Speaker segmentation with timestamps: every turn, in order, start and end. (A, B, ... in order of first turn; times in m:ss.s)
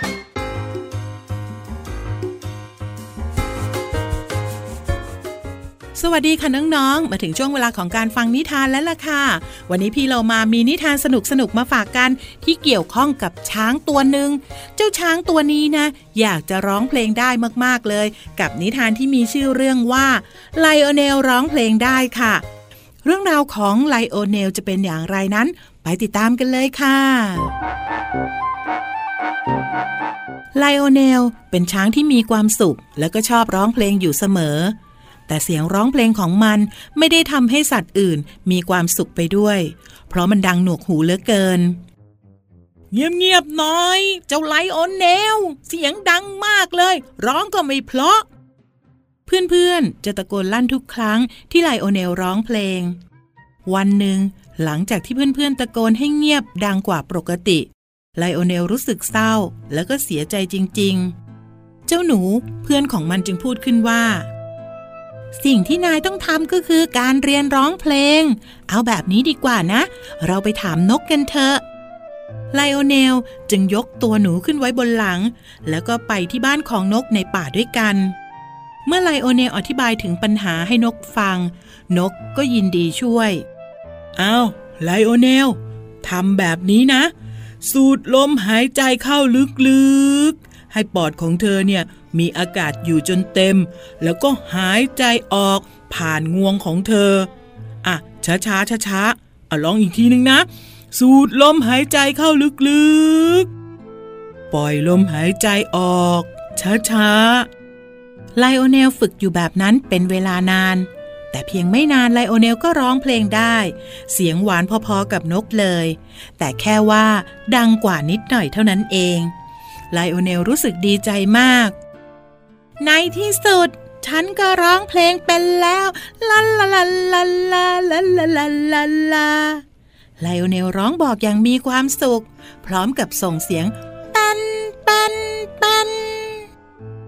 0:05.9-0:22.4 A
0:23.0-0:27.5 A
0:30.5-0:34.8 A
0:35.3-0:41.8 A
0:42.9-0:48.2 A
0:49.3-0:53.0 A
0:53.6-1:01.1 A
1:01.9-1:04.2 A
1:05.4-1:11.6 A
1:12.5-1:18.1 A
1:18.8-1:23.4 A
1:24.2-1:37.3 A
1:37.8-1:43.5 A
1:44.5-1:47.5 A
1:48.4-1:59.3 A
1:59.9-2:01.8 A
2:02.8-2:09.6 A
2:10.2-2:16.4 A